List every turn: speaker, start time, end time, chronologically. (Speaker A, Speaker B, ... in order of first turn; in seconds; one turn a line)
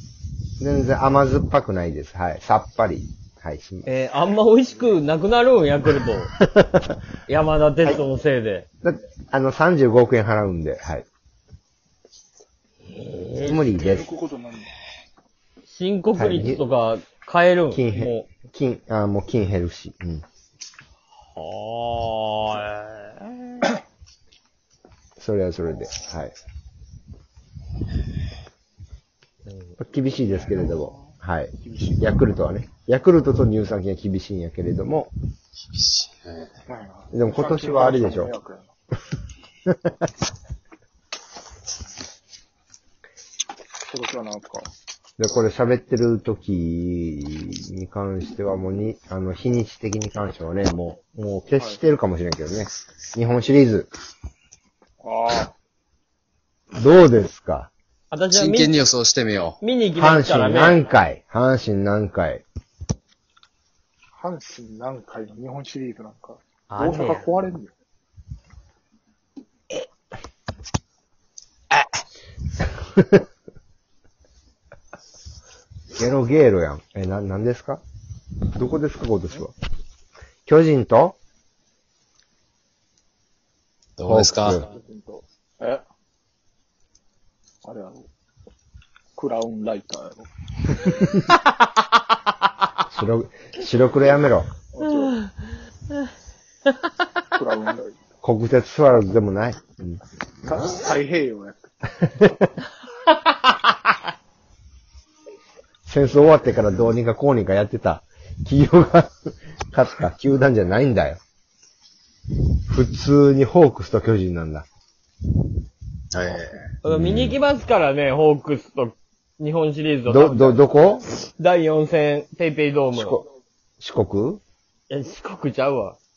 Speaker A: 0.6-3.9
Speaker B: 3.9-6.3
Speaker A: 6.4-7.0
Speaker B: 7.3-8.7
Speaker A: 8.8-11.1
Speaker B: 12.8-13.7
Speaker A: 13.4-14.1
Speaker C: 13.7-14.7
Speaker B: 15.7-18.3
Speaker A: 16.2-16.6
Speaker A: 17.7-20.2
Speaker B: 21.3-23.6
Speaker A: 25.2-26.3
Speaker B: 29.4-29.7
Speaker A: 29.8-35.1
Speaker C: 30.2-32.1
Speaker D: 35.7-36.5
Speaker C: 36.7-38.7
Speaker A: 37.1-38.3
Speaker A: 39.6-40.0
Speaker C: 43.8-44.7
Speaker A: 45.2-53.9
Speaker C: 55.0-55.5
Speaker A: 56.8-57.7
Speaker B: 58.1-58.7
Speaker D: 58.3-59.6
Speaker B: 59.6-60.8
Speaker A: 60.0-62.4
Speaker C: 64.2-67.7
Speaker B: 66.7-67.3
Speaker A: 75.9-77.8
Speaker A: 78.5-79.5
Speaker A: 80.5-81.2
Speaker D: 84.0-84.6
Speaker A: 84.0-84.6
Speaker C: 84.5-85.8
Speaker C: 87.6-88.1
Speaker C: 89.2-90.3
Speaker A: 92.9-94.5
Speaker C: 94.7-95.2
Speaker C: 97.3-98.0
Speaker A: 98.2-100.0
Speaker C: 100.4-101.7
Speaker A: 102.0-102.5
Speaker A: 105.8-111.2
Speaker A: 112.7-114.7
Speaker D: 116.1-116.7
Speaker B: 116.8-120.6
Speaker A: 116.8-117.4
Speaker A: 120.1-121.0
Speaker B: 121.2-123.2
Speaker A: 122.9-123.3
Speaker A: 123.8-124.4
Speaker B: 124.9-126.0